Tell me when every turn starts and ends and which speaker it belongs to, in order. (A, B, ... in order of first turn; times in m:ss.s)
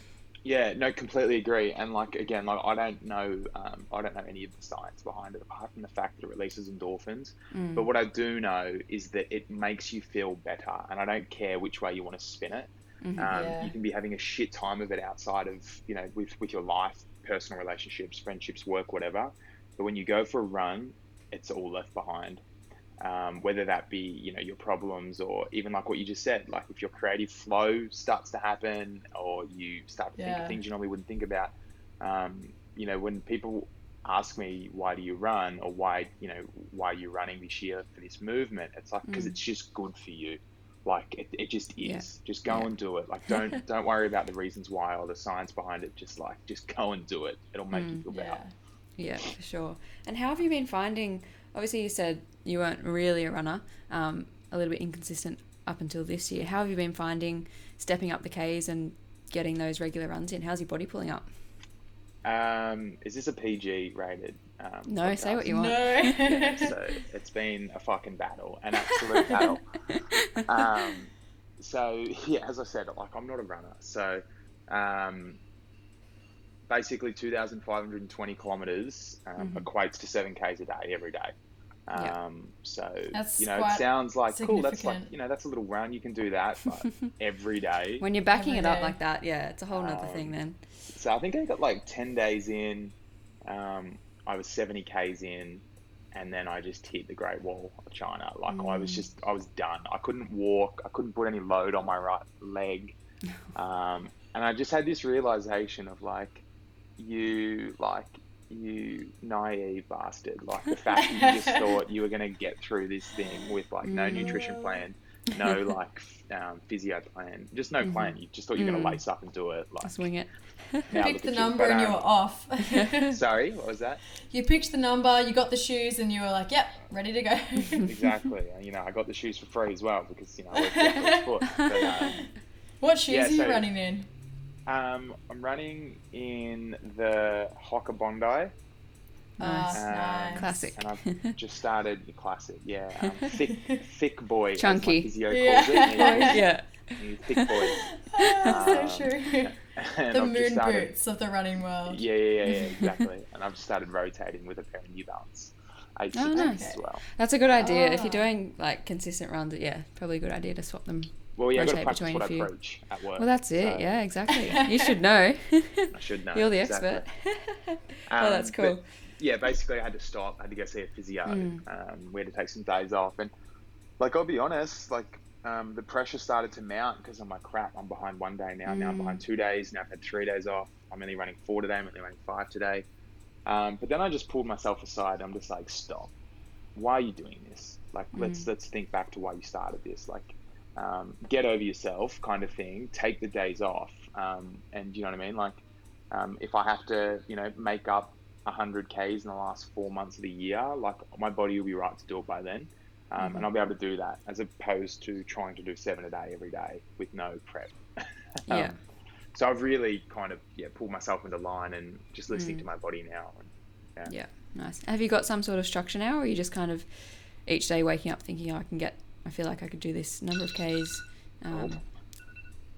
0:00.4-0:22.4 A
0:07.5-0:07.9 B
0:13.0-0:13.5 B
0:13.3-0:13.7 C
0:23.0-0:48.4 A
0:30.2-0:30.6 C
0:39.1-0:39.4 B
0:41.8-0:42.7 B
0:47.7-0:48.1 B
0:48.1-0:48.5 C
0:49.0-1:01.3 B
1:02.2-1:15.4 A
1:04.9-1:06.8 B
1:05.5-1:06.7 C
1:09.0-1:10.5 B
1:16.7-1:21.3 A
1:19.4-1:19.7 B
1:21.9-1:28.0 A
1:23.1-1:25.1 C
1:28.0-1:30.6 B
1:28.3-1:29.0 C
1:29.7-1:30.3 A
1:30.9-1:32.9 A
1:33.5-1:43.0 A
1:38.5-1:39.0 B
1:43.5-1:46.4 A
1:47.0-2:00.1 A
1:51.0-1:51.6 C
1:53.8-1:54.4 B
1:54.2-1:54.8 C
1:57.8-1:59.0 B
1:59.8-2:00.9 B
2:00.9-2:02.0 A
2:00.9-2:03.2 C
2:03.1-2:04.0 A
2:04.3-2:08.0 C
2:07.7-2:12.3 A
2:10.5-2:12.3 C
2:11.6-2:12.2 B
2:12.8-2:14.1 C
2:13.1-2:13.7 A
2:14.7-2:18.5 A
2:19.4-2:20.5 C
2:19.4-2:19.8 B
2:19.7-2:30.9 A
2:20.4-2:21.4 B
2:23.0-2:23.3 B
2:24.6-2:25.2 B
2:25.3-2:26.4 C
2:25.8-2:27.7 B
2:27.7-2:29.5 C
2:28.3-2:28.6 B
2:30.1-2:32.0 C
2:31.9-2:37.1 A
2:32.4-2:33.0 B
2:36.1-2:42.5 B
2:36.3-2:36.8 C
2:37.5-2:38.2 C
2:41.4-2:44.0 A
2:43.2-2:48.8 B
2:44.3-2:45.0 C
2:45.9-2:47.1 A
2:48.1-2:53.3 A
2:51.2-2:51.6 B
2:54.0-3:02.8 A
2:58.7-2:59.2 B
3:03.5-3:06.1 A
3:06.8-3:15.6 A
3:08.1-3:08.5 B
3:16.1-3:28.8 A
3:23.2-3:23.5 B
3:28.5-3:28.8 B
3:29.4-3:34.2 A
3:32.3-3:32.6 B
3:34.1-3:41.8 B
3:41.5-3:41.8 A